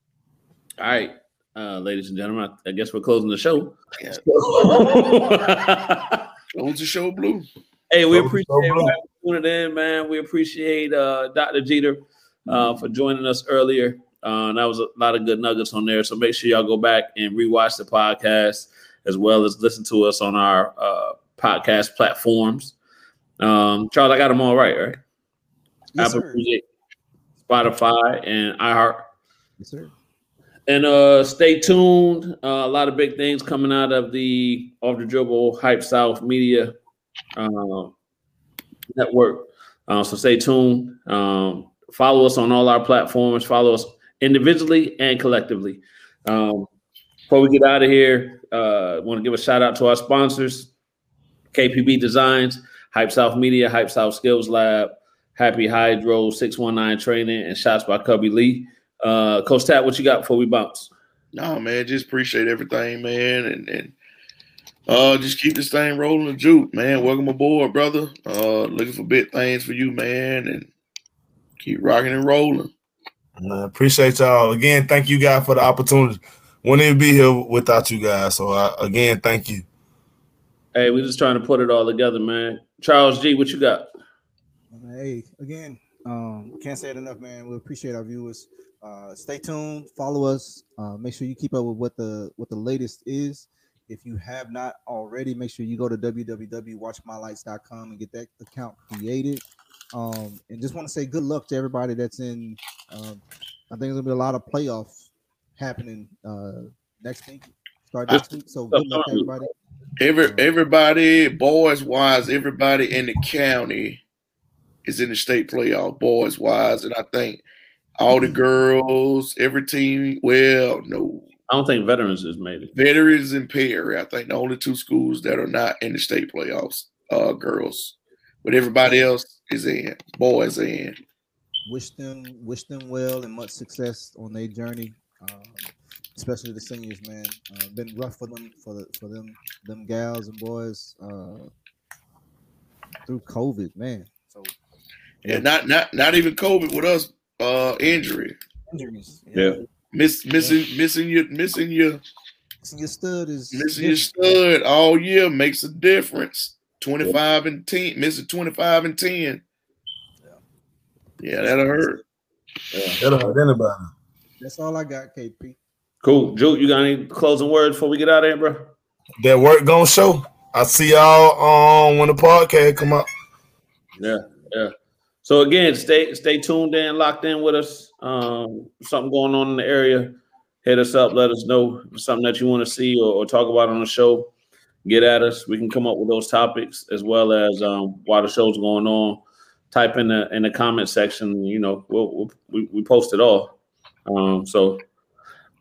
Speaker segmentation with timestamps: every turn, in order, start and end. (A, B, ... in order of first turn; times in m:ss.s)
0:00.8-0:06.2 A
0:06.5-0:07.4 B
0:07.9-0:22.7 A
0:08.1-0:09.0 C
0:23.4-0:25.0 A
0:25.9-0:26.4 D
0:26.0-0:26.6 A
0:27.4-0:29.0 A
0:29.6-0:29.9 D
0:30.7-0:36.8 A
0:37.4-0:37.9 A
0:38.9-0:46.7 A
0:47.3-0:50.7 A
0:51.5-1:00.9 A
1:01.3-1:03.9 B
1:04.9-1:10.7 B
1:11.6-1:12.7 B
1:13.4-1:19.6 C
1:20.7-1:23.9 A
1:24.7-1:49.5 D
1:48.1-1:49.3 A
1:50.0-1:54.0 B
1:50.2-1:50.5 D
1:54.8-1:57.4 B
1:58.0-2:01.3 B
2:01.5-2:02.7 A
2:02.7-2:11.0 B
2:11.6-2:21.5 D
2:23.0-2:24.5 D
2:25.2-2:28.3 B
2:28.7-2:29.6 D
2:29.3-2:29.6 A
2:29.9-2:32.0 B
2:32.6-2:34.4 D
2:33.5-2:39.4 B
2:41.2-2:42.0 B
2:41.4-2:42.0 D
2:42.7-2:43.0 A
2:43.0-2:43.9 C
2:44.4-2:45.6 D
2:46.0-2:48.7 A
2:49.2-2:53.1 C
2:54.0-2:54.7 A
2:55.2-3:04.3 A
3:04.8-3:13.5 A
3:14.0-3:14.8 A